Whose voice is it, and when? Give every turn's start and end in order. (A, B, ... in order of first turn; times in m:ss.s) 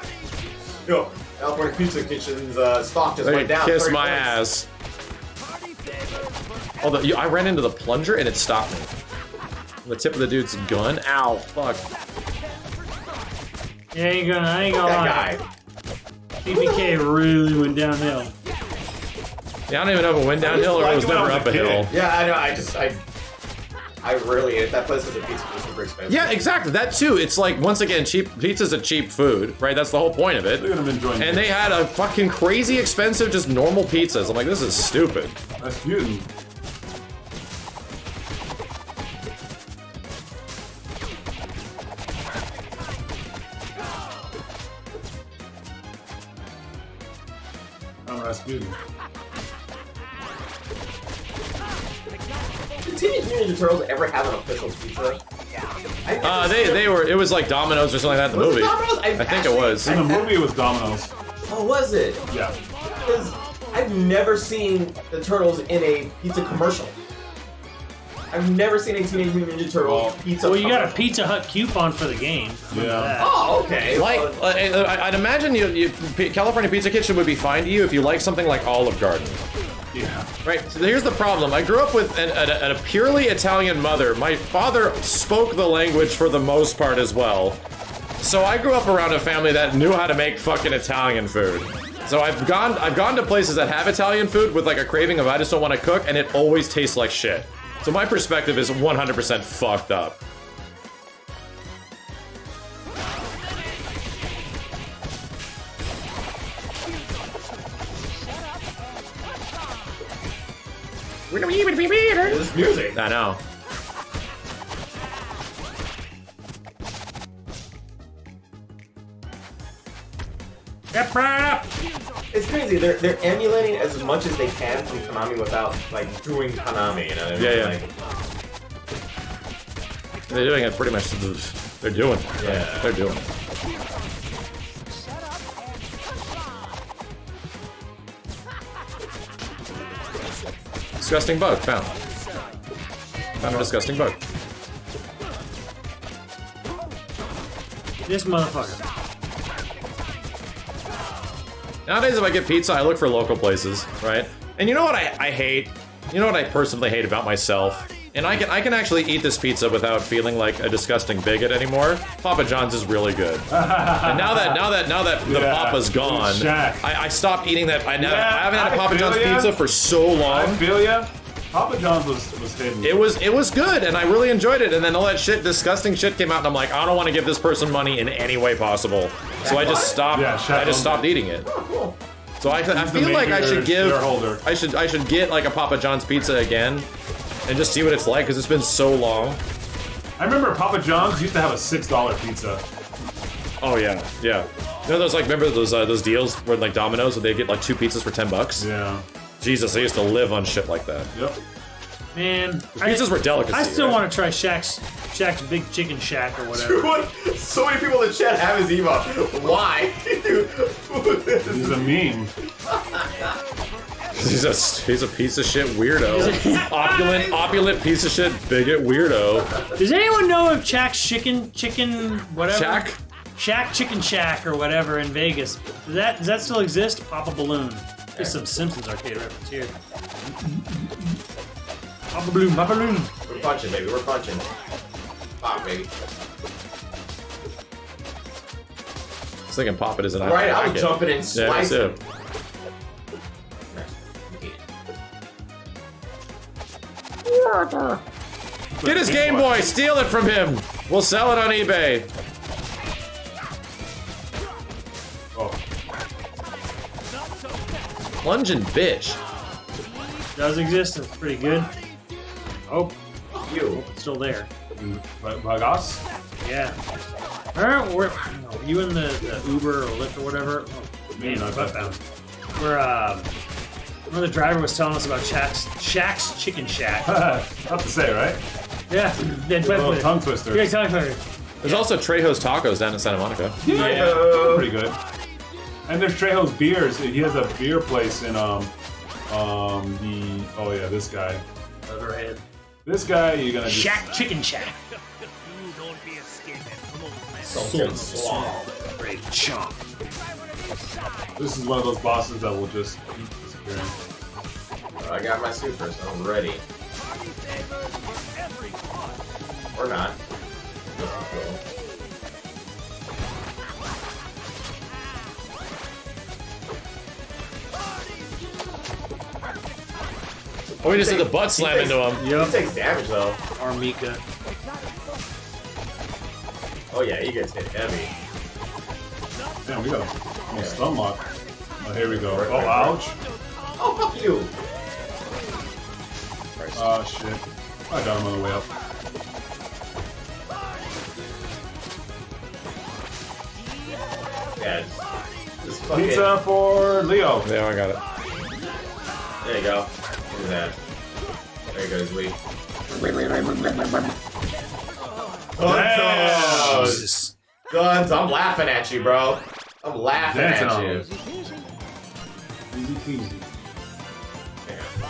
0:00.8-0:04.4 A
0:03.2-0:04.7 B
0:06.8-0:08.9 B
0:09.8-0:11.8 B
0:13.9-0:15.3 C
0:14.7-0:15.4 A
0:16.4-0:18.3 C
0:16.5-0:17.0 A
0:19.7-0:21.9 B
0:20.4-0:21.9 D
0:21.9-0:23.0 A
0:24.0-0:26.4 A
0:26.1-0:35.4 B
0:30.6-0:31.6 D
0:35.6-0:36.3 D
0:48.0-0:48.8 D
0:52.8-0:55.2 A
0:56.0-0:56.9 A
0:56.2-0:59.9 B
0:58.3-1:00.4 A
0:59.8-1:01.1 D
1:01.4-1:02.2 A
1:02.3-1:02.6 D
1:03.0-1:06.9 A
1:08.3-1:11.1 A
1:09.7-1:10.2 D
1:10.4-1:13.5 C
1:12.7-1:13.2 D
1:13.2-1:14.4 A
1:13.8-1:19.4 B
1:19.9-1:20.3 D
1:20.4-1:27.6 B
1:28.2-1:40.2 B
1:51.3-1:53.4 B
1:52.2-1:53.0 A
2:00.9-2:01.7 C
2:02.3-2:07.9 A
2:07.4-2:07.8 B
2:10.3-2:13.3 B
2:12.4-2:13.0 A
2:21.0-2:22.0 B
2:23.4-2:23.7 D
2:23.4-2:24.2 B
2:28.0-2:28.8 C
2:31.8-2:43.5 B
2:43.5-2:44.6 D
2:44.0-2:50.7 B
2:45.2-2:46.8 D
2:48.0-2:49.6 D
2:50.2-2:53.0 D
2:52.8-3:01.4 B
2:59.4-3:00.0 A
3:00.0-3:01.1 D
3:01.4-3:02.0 A
3:02.4-3:06.9 B
3:02.6-3:04.4 D
3:07.5-3:09.4 B
3:10.2-3:12.6 D
3:13.6-3:18.7 B
3:18.6-3:19.0 D
3:19.4-3:21.1 B
3:21.1-3:21.4 D
3:22.1-3:26.9 C
3:22.8-3:24.0 B
3:26.5-3:31.9 A
3:31.4-3:32.3 D
3:32.6-3:33.3 A
3:34.1-3:39.5 B
3:36.0-3:36.7 C
3:36.2-3:37.6 A
3:39.8-3:49.7 C
3:42.5-3:43.0 B
3:48.1-3:48.4 A
3:50.5-3:50.9 C
3:52.1-3:53.1 C
3:53.2-3:54.5 A
3:55.4-3:55.9 A
3:59.5-4:02.0 B
4:00.2-4:02.0 A
4:03.7-4:04.6 A
4:07.2-4:08.0 B
4:08.8-4:09.7 D
4:08.8-4:12.1 B
4:15.3-4:15.6 D
4:18.2-4:19.2 B
4:20.3-4:21.7 C
4:22.7-4:23.0 C
4:23.3-4:23.8 A
4:23.7-4:24.5 C
4:24.7-4:26.0 D
4:26.4-4:26.8 C
4:27.5-4:32.0 C
4:31.1-4:32.0 D
4:32.6-4:33.3 C
4:34.1-4:37.1 C
4:37.0-4:38.4 D
4:38.9-4:41.2 C
4:39.6-4:40.6 D
4:41.6-4:44.2 B
4:43.6-4:45.0 D
4:43.7-4:44.7 A
4:45.9-4:48.7 D
4:49.3-4:51.4 D
4:51.9-4:52.4 C
4:52.8-4:54.2 D
4:53.6-4:54.8 C
4:56.0-4:59.8 C
4:57.4-4:58.7 A
5:01.3-5:04.0 D
5:05.0-5:06.6 A
5:09.7-5:10.2 A
5:10.9-5:11.6 A
5:20.8-5:22.2 B
5:20.8-5:23.4 A
5:22.1-5:22.6 C
5:23.5-5:24.2 C
5:26.9-5:28.1 A
5:29.6-5:31.3 D
5:30.5-5:30.8 A
5:31.8-5:33.2 D
5:32.0-5:33.0 A
5:33.7-5:34.5 A
5:36.6-5:36.8 B
5:36.7-5:38.7 D
5:44.6-5:45.0 A
5:45.6-5:46.4 A
5:45.9-5:47.5 D
5:47.4-5:48.0 B
5:49.4-5:50.8 A
5:51.7-5:52.3 A
5:55.6-5:57.0 A
5:55.6-5:57.0 D
5:56.3-5:57.3 C
5:57.7-6:01.1 A
6:00.2-6:01.1 D
6:02.7-6:03.4 D
6:04.6-6:04.9 A